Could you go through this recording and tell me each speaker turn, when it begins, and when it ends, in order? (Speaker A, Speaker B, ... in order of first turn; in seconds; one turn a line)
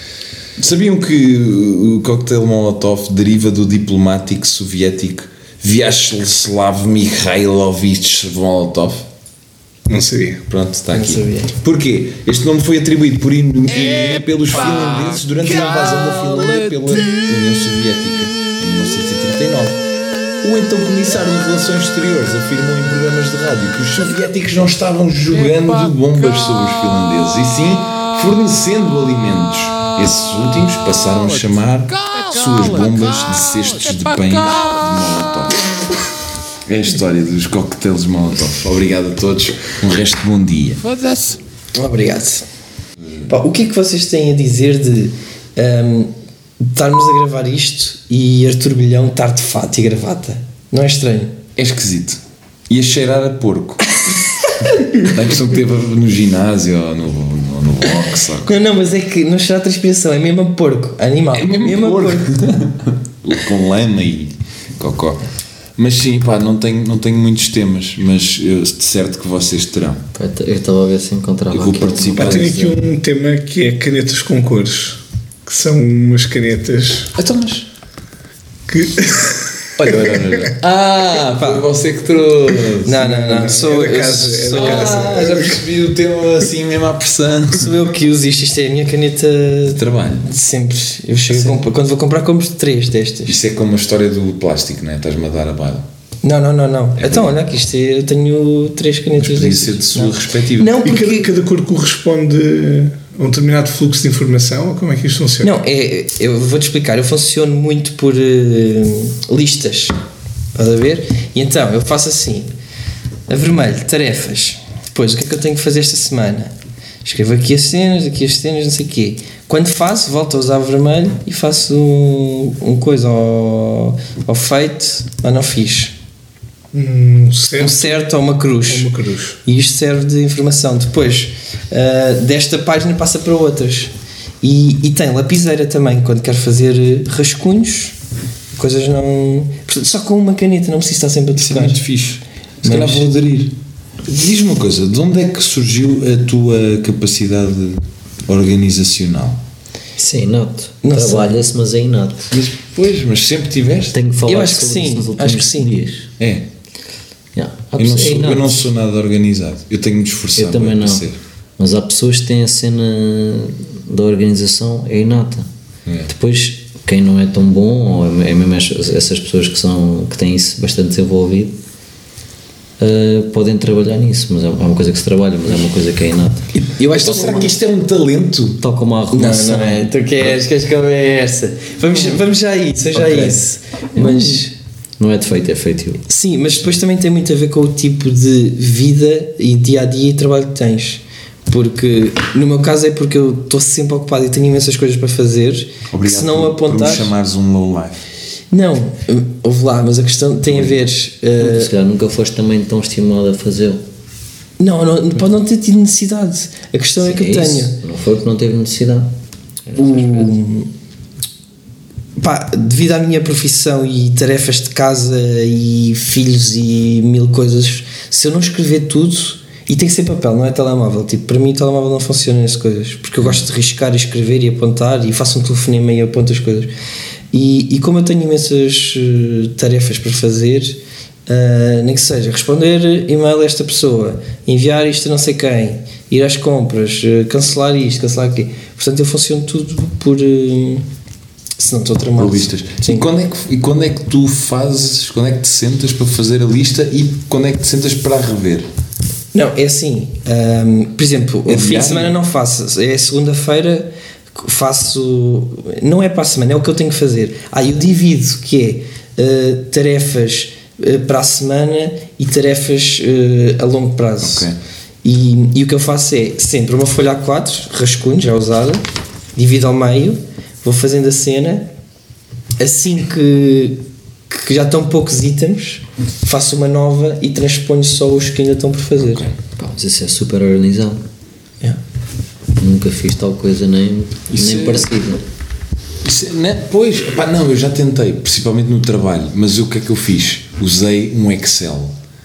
Speaker A: 0.6-9.1
Speaker B: 9.9-10.4
Speaker A: 10.5-19.8
Speaker C: 10.9-11.5
Speaker A: 20.4-35.6
Speaker A: 36.7-41.3
Speaker C: 41.7-42.5
Speaker C: 43.3-51.4
Speaker A: 51.6-53.8
Speaker A: 54.9-58.6
Speaker C: 58.4-62.3
Speaker A: 61.3-65.2
Speaker A: 65.8-70.1
Speaker D: 70.2-72.9
Speaker A: 71.5-72.5
Speaker B: 72.2-77.1
Speaker A: 77.2-77.7
Speaker B: 78.7-80.4
Speaker A: 79.8-83.0
Speaker C: 81.4-81.7
Speaker C: 82.8-85.2
Speaker B: 82.9-85.6
Speaker A: 84.5-87.8
Speaker C: 87.5-93.4
Speaker A: 89.7-90.3
Speaker A: 91.3-91.7
Speaker A: 93.3-95.9
Speaker C: 96.2-101.3
Speaker A: 97.0-97.4
Speaker A: 99.2-100.8
Speaker B: 100.8-105.5
Speaker C: 105.4-110.0
Speaker C: 110.5-112.5
Speaker C: 113.3-116.5
Speaker C: 117.0-126.0
Speaker B: 126.7-128.1
Speaker C: 127.6-128.9
Speaker B: 128.7-129.4
Speaker C: 129.4-137.9
Speaker C: 138.6-141.8
Speaker A: 141.4-149.4
Speaker C: 142.6-143.1
Speaker D: 150.0-152.3
Speaker C: 150.8-151.3
Speaker A: 152.3-153.9
Speaker D: 153.9-156.1
Speaker C: 154.3-155.8
Speaker A: 156.2-156.5
Speaker D: 157.3-158.7
Speaker A: 157.8-161.2
Speaker D: 160.4-161.1
Speaker D: 161.6-165.5
Speaker D: 166.1-171.6
Speaker D: 172.8-176.5
Speaker A: 176.7-178.6
Speaker C: 176.7-177.6
Speaker D: 178.6-179.9
Speaker C: 179.1-184.5
Speaker D: 182.9-183.4
Speaker D: 184.0-184.4
Speaker D: 185.0-186.0
Speaker C: 186.1-197.1
Speaker A: 195.9-198.1
Speaker C: 198.5-201.7
Speaker D: 201.4-203.8
Speaker C: 204.6-207.8
Speaker D: 207.0-209.1
Speaker D: 209.7-210.3
Speaker C: 209.8-210.7
Speaker C: 212.2-226.7
Speaker C: 227.3-240.9
Speaker C: 241.6-243.1
Speaker A: 242.2-248.7
Speaker C: 249.3-264.5
Speaker A: 251.5-252.2
Speaker A: 264.2-264.6
Speaker C: 265.0-268.8
Speaker C: 269.4-271.7
Speaker C: 272.6-279.3
Speaker A: 279.0-279.4
Speaker D: 279.6-281.0
Speaker D: 282.6-285.2
Speaker A: 284.3-284.9
Speaker A: 286.0-291.9